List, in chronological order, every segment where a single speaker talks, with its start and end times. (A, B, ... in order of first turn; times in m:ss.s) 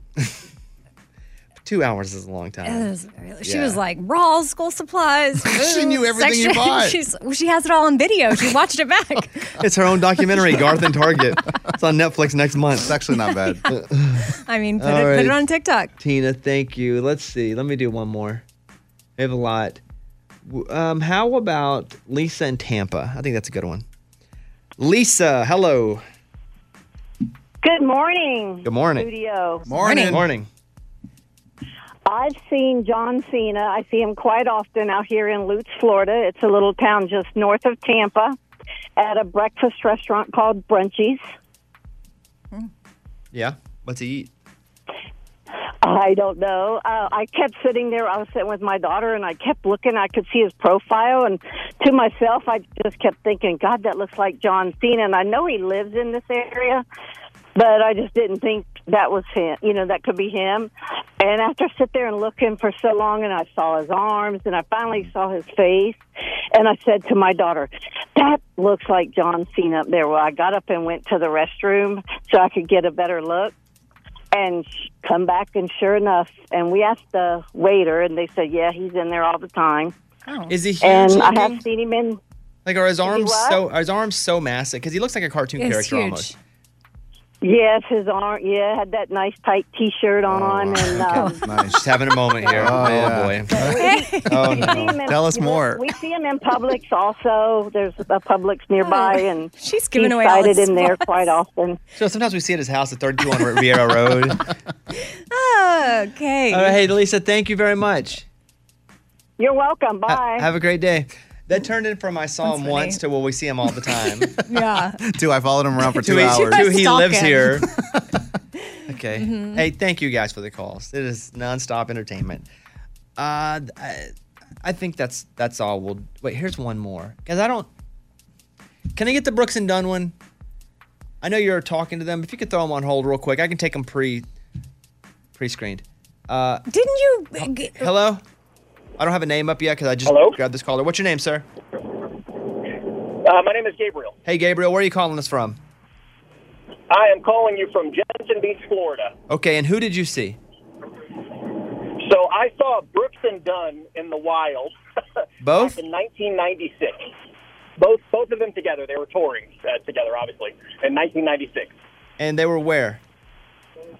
0:01.6-0:02.9 A
0:02.6-0:09.5 B
0:03.4-0:03.8 A
0:05.4-0:07.0 C
0:09.6-0:12.9 A
0:12.8-0:13.7 C
0:13.7-0:15.4 A
0:14.4-0:15.9 B
0:16.0-0:18.4 A
0:19.2-0:19.8 A
0:20.4-0:23.8 A
0:24.8-0:26.0 A
0:27.6-0:29.6 D
0:28.6-0:29.1 A
0:29.7-0:30.3 C
0:29.8-0:30.2 B
0:30.0-0:30.5 A
0:32.1-0:38.4 D
0:39.0-0:41.2 D
0:43.3-0:44.3 A
0:45.8-0:56.8 D
0:57.6-1:00.7 D
1:01.2-1:06.0 D
1:06.5-1:13.5 D
1:14.3-1:19.9 D
1:20.3-1:20.5 B
1:20.5-1:21.6 A
1:20.8-1:22.2 D
1:22.6-1:26.3 A
1:23.0-1:23.6 D
1:25.6-1:26.4 B
1:27.4-1:31.4 D
1:30.3-1:31.8 C
1:30.9-1:31.4 B
1:31.1-1:33.7 A
1:32.5-1:33.8 C
1:33.5-1:41.8 D
1:33.7-1:34.8 B
1:34.3-1:34.9 A
1:34.5-1:35.8 C
1:38.8-1:41.4 B
1:42.0-1:44.5 A
1:45.3-1:46.7 B
1:46.5-1:48.2 A
1:49.4-1:50.5 D
1:50.1-1:54.3 A
1:52.4-1:53.0 B
1:54.4-1:55.0 B
1:55.0-1:56.9 C
1:56.0-1:57.6 A
1:56.1-1:57.6 B
1:58.8-1:59.6 B
1:58.9-2:02.4 A
2:03.2-2:04.1 A
2:04.6-2:07.7 A
2:08.9-2:10.1 A
2:11.2-2:14.2 A
2:15.3-2:16.6 A
2:16.7-2:17.9 B
2:17.8-2:18.2 A
2:19.0-2:21.4 A
2:20.0-2:20.4 E
2:23.2-2:24.2 E
2:24.2-2:25.6 A
2:26.9-2:29.1 E
2:29.3-2:30.4 A
2:32.0-2:34.7 E
2:35.4-2:35.8 A
2:35.5-2:37.1 E
2:37.8-2:41.7 E
2:42.2-2:43.0 A